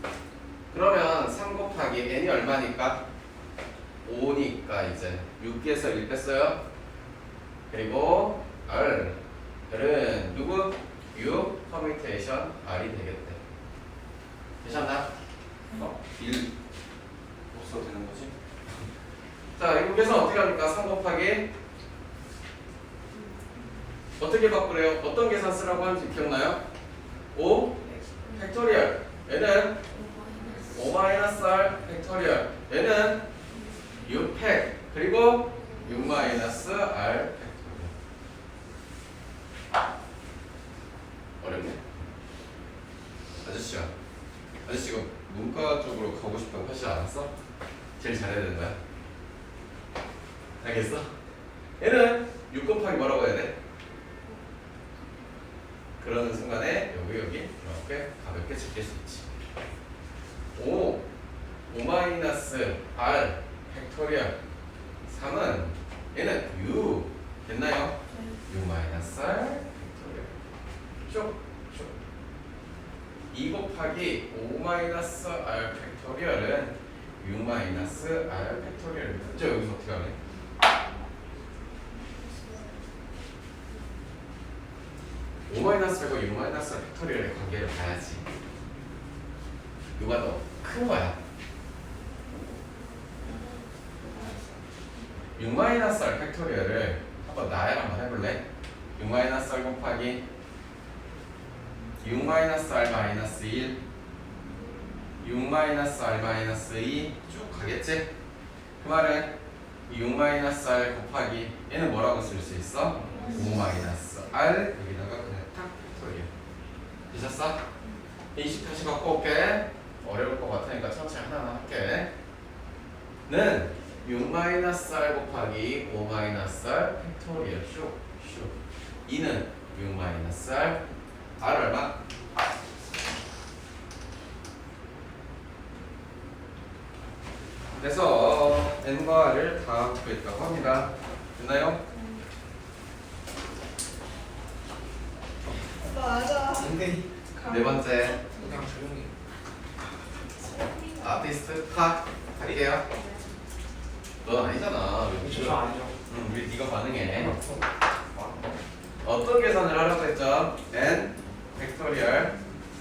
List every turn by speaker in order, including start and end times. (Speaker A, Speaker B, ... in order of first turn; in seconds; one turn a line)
Speaker A: 0.7-3.0
Speaker A: 4.0-6.6
Speaker A: 7.7-13.4
Speaker A: 14.6-15.1
Speaker A: 15.7-16.5
Speaker A: 17.5-18.3
Speaker A: 19.6-21.5
Speaker A: 24.2-26.6
Speaker A: 27.3-29.8
Speaker B: 27.8-28.5
Speaker B: 29.9-31.2
Speaker A: 30.7-33.3
Speaker B: 33.5-34.0
Speaker A: 34.0-37.9
Speaker B: 35.8-36.3
Speaker A: 41.4-41.8
Speaker A: 43.4-43.9
Speaker A: 44.6-47.3
Speaker A: 48.0-48.8
Speaker A: 50.6-51.1
Speaker A: 51.8-53.6
Speaker A: 56.0-59.3
Speaker A: 60.5-61.1
Speaker A: 61.7-64.3
Speaker A: 65.1-70.3
Speaker B: 68.1-68.4
Speaker A: 71.1-71.9
Speaker A: 73.3-80.2
Speaker B: 81.9-82.9
Speaker A: 85.5-88.2
Speaker A: 90.0-91.2
Speaker C: 94.1-94.4
Speaker A: 95.3-98.4
Speaker A: 99.0-100.2
Speaker A: 102.0-103.8
Speaker A: 105.2-108.1
Speaker A: 108.8-109.3
Speaker A: 109.9-116.3
Speaker C: 112.9-113.4
Speaker B: 113.1-113.8
Speaker A: 117.1-117.6
Speaker A: 118.3-122.1
Speaker A: 123.3-128.6
Speaker A: 129.1-130.8
Speaker A: 131.4-132.0
Speaker A: 137.8-141.8
Speaker B: 141.9-142.2
Speaker B: 145.8-146.7
Speaker C: 146.5-147.1
Speaker B: 147.3-148.4
Speaker A: 147.4-148.2
Speaker C: 148.4-149.1
Speaker B: 150.4-151.2
Speaker A: 151.0-152.8
Speaker B: 152.9-153.2
Speaker A: 154.2-157.4
Speaker C: 155.1-156.0
Speaker C: 157.2-158.5
Speaker A: 159.0-162.4